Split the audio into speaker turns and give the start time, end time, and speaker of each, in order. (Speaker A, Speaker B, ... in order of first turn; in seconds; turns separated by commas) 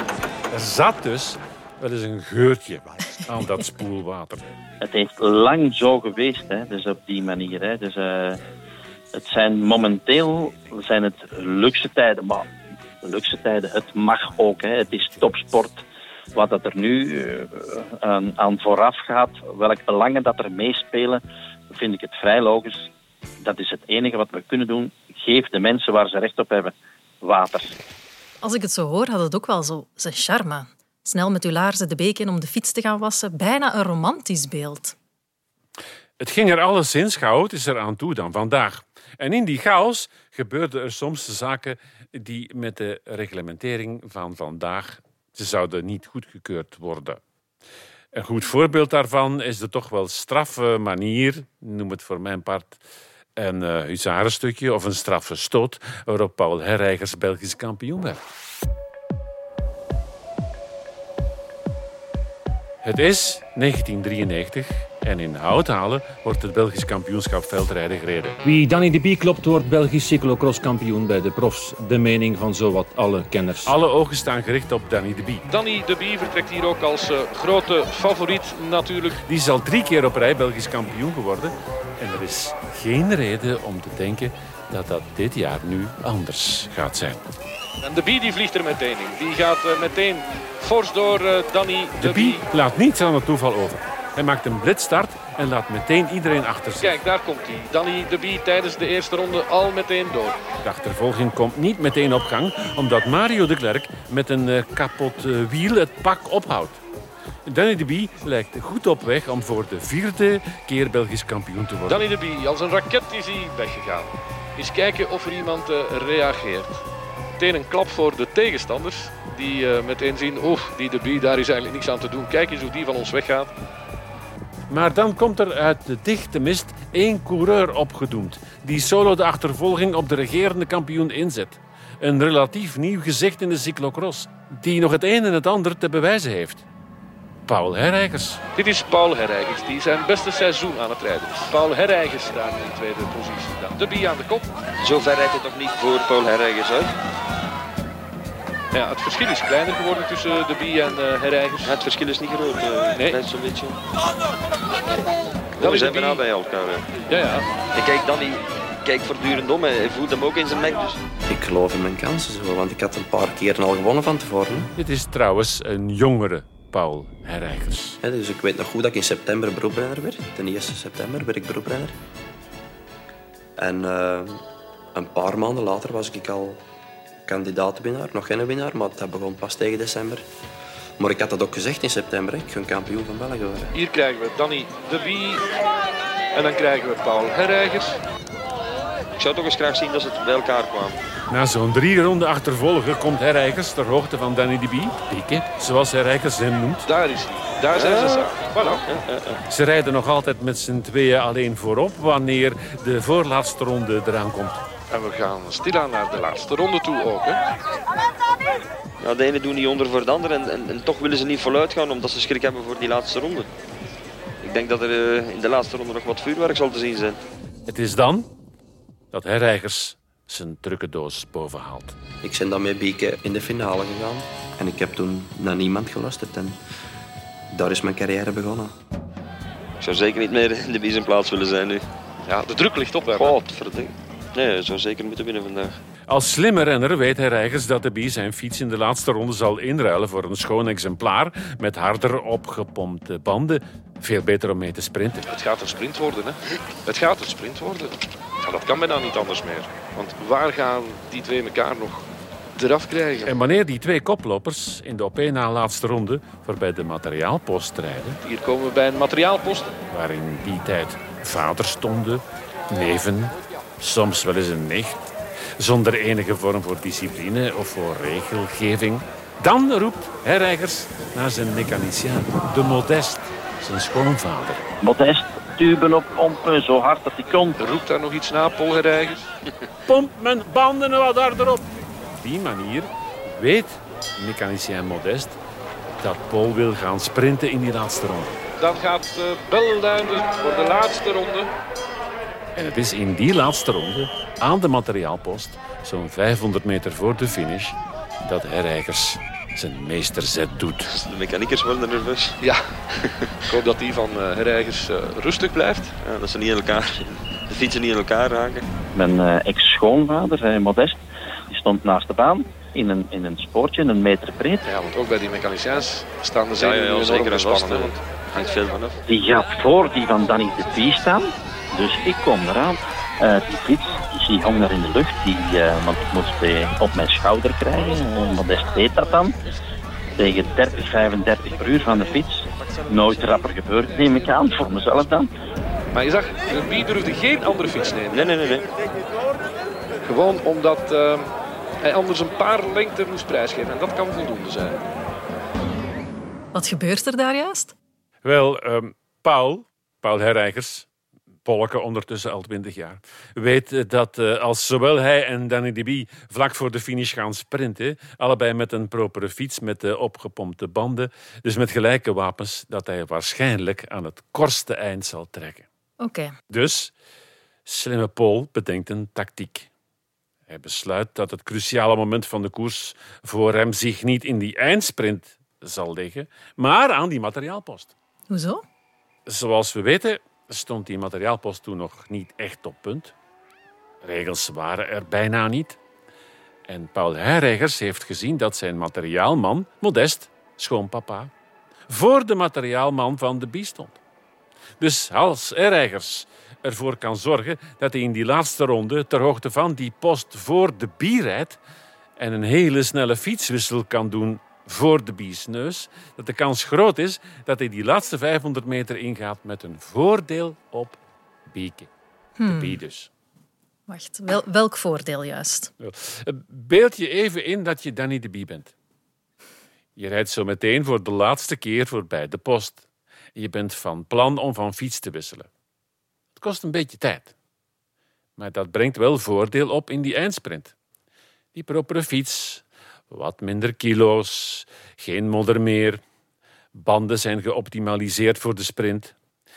Speaker A: 0.5-4.4, Speaker B: 4.8-8.4, Speaker B: 9.1-12.4, Speaker B: 13.0-15.8, Speaker B: 16.3-22.9, Speaker B: 23.4-27.7, Speaker C: 28.4-34.9, Speaker A: 36.2-47.2, Speaker A: 48.1-52.8, Speaker A: 53.4-58.2, Speaker A: 62.8-68.4, Speaker D: 68.4-73.7, Speaker A: 73.6-75.5, Speaker E: 75.5-79.2, Speaker A: 79.2-87.2, Speaker E: 87.8-92.4, Speaker A: 92.0-97.0, Speaker E: 96.8-100.4, Speaker A: 100.6-106.8, Speaker A: 107.5-112.0, Speaker E: 111.9-116.8, Speaker E: 117.4-123.5, Speaker A: 124.7-136.6, Speaker A: 137.5-138.4, Speaker E: 138.5-144.5, Speaker F: 144.8-146.9, Speaker E: 148.7-151.8, Speaker F: 151.6-153.8, Speaker E: 152.9-153.2, Speaker F: 155.6-157.0, Speaker E: 155.6-156.2, Speaker E: 157.1-157.5, Speaker F: 157.7-161.0, Speaker G: 161.2-164.7, Speaker A: 164.8-168.0, Speaker G: 168.0-171.9, Speaker G: 173.6-174.4, Speaker G: 174.9-176.6, Speaker G: 177.2-180.2, Speaker G: 181.0-183.7, Speaker E: 183.7-185.5, Speaker E: 186.3-188.0, Speaker F: 189.2-191.0, Speaker A: 191.3-196.8, Speaker E: 196.8-198.9, Speaker F: 197.7-199.4, Speaker A: 199.5-204.6, Speaker E: 204.9-207.4, Speaker F: 209.0-213.5, Speaker F: 214.4-217.2, Speaker A: 217.7-218.3, Speaker A: 219.1-222.0, Speaker G: 222.2-226.6, Speaker G: 227.5-228.7, Speaker F: 229.8-231.9, Speaker E: 232.2-233.5, Speaker F: 233.1-235.8, Speaker A: 236.1-245.3, Speaker E: 245.3-253.3, Speaker A: 253.2-258.2, Speaker E: 258.2-259.7, Speaker A: 259.9-265.0, Speaker A: 265.6-274.6, Speaker B: 274.8-277.6, Speaker E: 277.6-279.2, Speaker A: 279.9-281.7, Speaker A: 282.2-285.4, Speaker A: 286.0-288.4, Speaker E: 288.6-291.5, Speaker A: 292.5-300.9, Speaker F: 300.9-302.4, Speaker E: 302.4-302.7, Speaker E: 303.5-305.9, Speaker F: 306.0-308.6, Speaker B: 308.9-314.6, Speaker E: 314.6-318.0, Speaker F: 316.5-318.9, Speaker B: 319.1-329.4, Speaker B: 330.2-335.3, Speaker E: 335.9-338.3, Speaker F: 338.1-338.7, Speaker E: 340.0-344.8, Speaker C: 346.5-347.7, Speaker A: 348.2-350.9, Speaker A: 351.4-365.6, Speaker C: 366.0-366.3, Speaker A: 366.5-366.9, Speaker A: 367.6-369.7, Speaker A: 370.5-377.9, Speaker C: 378.3-378.6, Speaker A: 379.3-383.1, Speaker A: 384.0-385.8, Speaker A: 386.7-391.3, Speaker A: 391.9-394.0, Speaker A: 394.8-401.6, Speaker A: 402.2-411.9, Speaker C: 412.4-412.8, Speaker A: 412.4-413.1, Speaker C: 413.9-415.7, Speaker A: 415.8-418.7, Speaker A: 419.9-422.8, Speaker A: 423.4-425.5, Speaker A: 426.4-427.3, Speaker A: 428.4-430.7, Speaker A: 431.5-436.0, Speaker A: 436.7-439.1